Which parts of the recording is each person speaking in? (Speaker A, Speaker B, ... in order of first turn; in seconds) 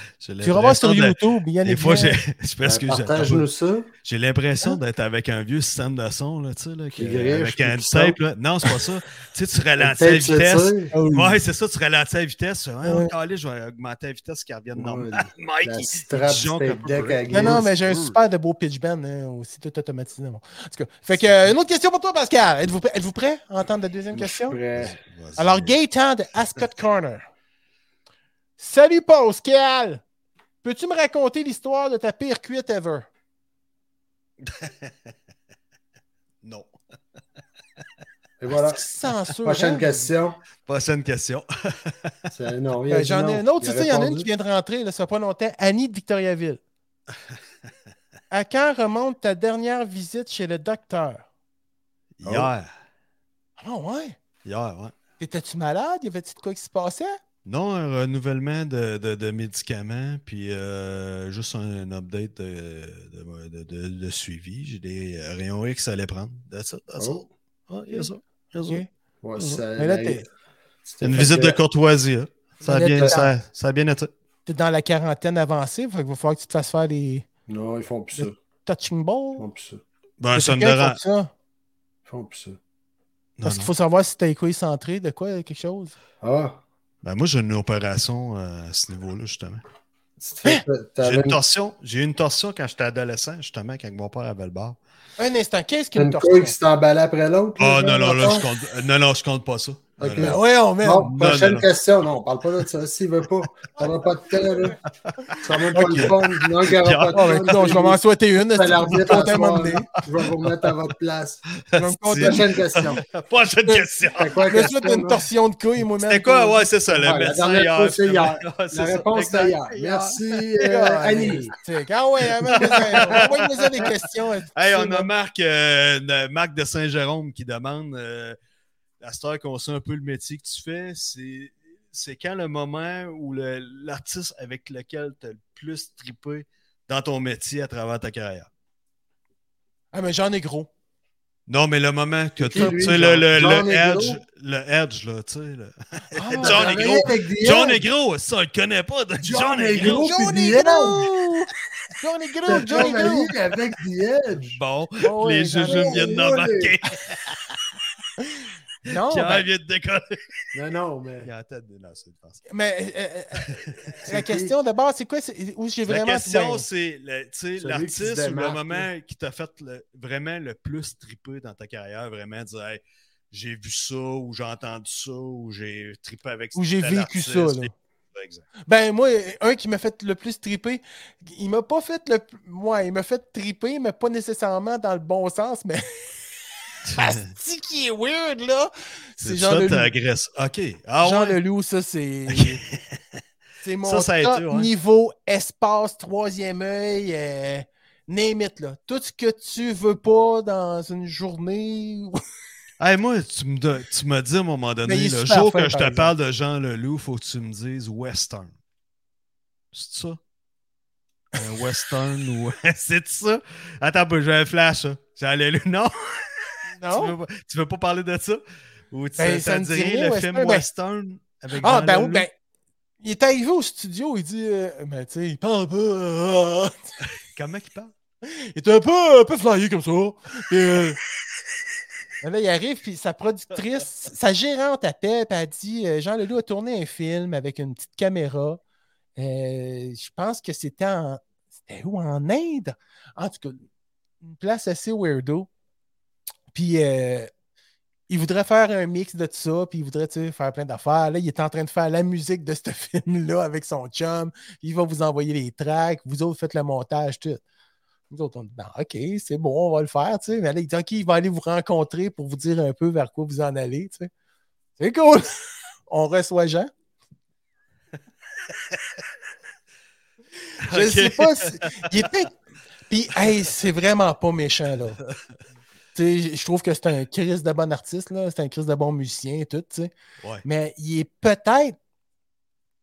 Speaker A: 0.2-3.5, 4.0-18.2, 21.2-21.5, 24.8-25.8, 34.4-35.1, 36.4-36.7, 40.6-42.3, 52.2-52.7, 54.4-55.0, 57.5-68.8, 71.0-74.1, 80.2-81.0, 83.4-83.7, 87.0-89.6, 91.0-94.8, 97.6-100.4, 101.0-101.7, 105.0-107.4, 111.7-114.4, 116.0-120.5, 122.5-124.0, 124.6-128.4, 129.0-138.5, 141.5-150.1, 154.4-157.4, 158.9-160.3, 161.2-162.4, 165.9-178.4, 186.8-187.3, 189.2-191.4, 192.3-193.0, 193.8-194.7, 202.8-208.5, 209.7-210.2, 211.3-222.3, 227.3-227.9, 268.5-269.0, 270.6-272.1
Speaker B: 0.4-2.2, 10.9-11.4, 12.8-13.1, 17.3-24.6, 25.4-27.3, 28.6-30.0, 30.6-33.1, 38.5-40.1, 42.9-46.6, 48.3-51.3, 53.6-54.2, 55.2-57.2, 69.4-70.2, 72.6-73.3, 74.5-77.3, 78.2-79.5, 80.3-81.3, 83.4-85.9, 95.2-96.5, 100.2-101.1, 105.7-106.1, 107.1-109.9, 111.8-112.6, 114.5-117.1, 120.6-125.1, 139.9-140.7, 142.5-142.8, 146.1-147.0, 149.8-153.3, 155.0-156.2, 158.8-159.5, 162.5-166.7, 176.6-177.7, 178.7-186.1, 187.0-189.9, 191.0-192.6, 193.6-202.2, 204.8-206.1, 216.8-217.2, 219.2-220.7, 221.5-222.3, 223.0-226.8, 228.2-231.0, 232.2-238.6, 239.2-243.6, 244.2-245.5, 246.5-247.3, 248.1-257.4, 258.1-264.1, 264.8-266.7, 270.7-272.3, 272.9-275.0, 275.9-279.9, 280.4-281.8
Speaker C: 2.6-3.9, 7.0-8.2, 9.8-10.9, 14.8-17.7, 24.1-25.0, 38.4-38.9, 39.4-40.4, 42.3-44.3, 52.2-52.5, 67.0-67.3, 69.2-70.2, 70.9-71.6, 77.5-78.3, 79.4-79.8, 82.1-82.6, 86.2-86.6, 90.2-91.4, 96.0-98.5, 100.0-104.8, 105.4-108.0, 108.5-111.5, 112.2-113.0, 114.2-115.2, 117.0-121.5, 122.6-123.3, 142.4-144.2, 146.4-147.8, 149.2-151.1, 152.5-154.6, 155.6-156.8, 160.5-161.3, 164.0-164.6, 167.6-168.9